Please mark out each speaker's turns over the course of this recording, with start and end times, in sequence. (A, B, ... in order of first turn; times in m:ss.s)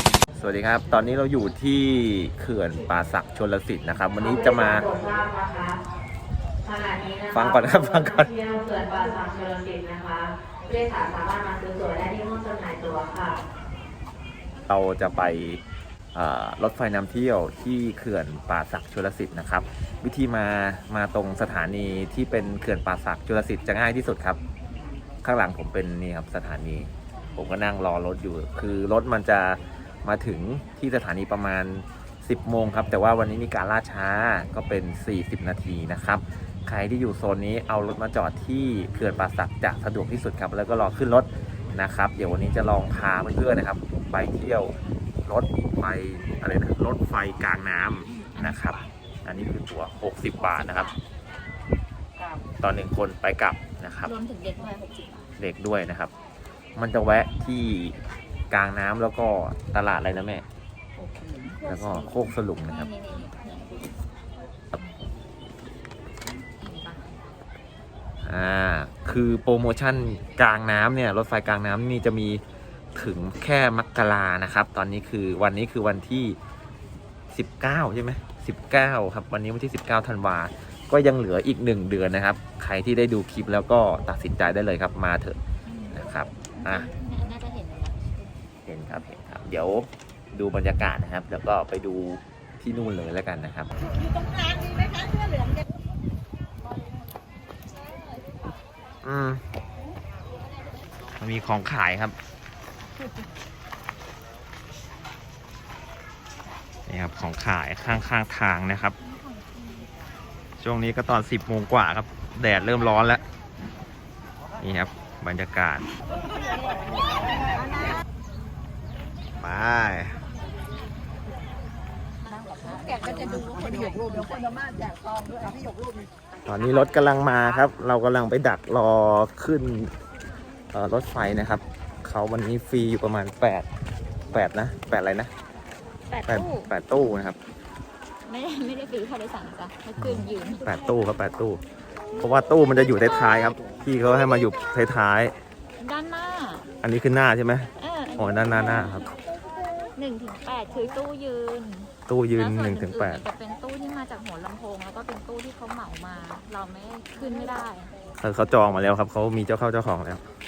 0:00.3-0:04.9 A
0:04.9-0:05.8 B
0:06.7-0:07.4 B
0:07.3-0:08.3 A
0:08.3-0:13.4 B
0:08.6-0:09.0 C
0:14.7-0:15.6 A
0:16.1-0:24.4 A
0:25.2-0:44.7 A
0:45.3-0:50.9 A
0:48.1-0:48.9 C
0:50.3-0:51.0 C
0:52.2-0:52.4 C
0:52.6-0:54.1 A
0:54.0-0:55.3 C
0:55.4-0:56.1 A
0:56.8-0:58.0 A
0:58.5-1:00.4 A
1:01.0-1:04.0 C
1:01.6-1:02.9 A
1:04.7-1:05.0 C
1:06.2-1:07.2 C
1:08.2-1:12.4 A
1:12.9-1:16.4 A
1:17.3-1:25.4 A
1:25.7-1:28.4 C
1:25.9-1:26.9 A
1:28.7-1:33.7 A
1:39.0-1:39.4 A
1:41.2-1:42.2 A
1:46.9-1:49.0 A
1:49.0-1:49.9 C
1:50.6-1:53.2 A
1:54.6-1:55.9 A
1:59.4-2:00.2 A
2:02.2-2:04.5 C
2:06.5-2:09.9 A
2:06.6-2:07.1 C
2:10.7-2:13.7 A
2:14.3-2:15.3 A
2:16.1-2:16.7 C
2:16.3-2:17.4 A
2:18.3-2:21.0 C
2:20.0-2:21.6 A
2:22.2-2:25.4 A
2:25.8-2:26.7 C
2:26.8-2:29.0 A
2:27.8-2:29.2 C
2:30.0-2:37.9 C
2:32.1-2:33.2 A
2:38.2-2:40.2 A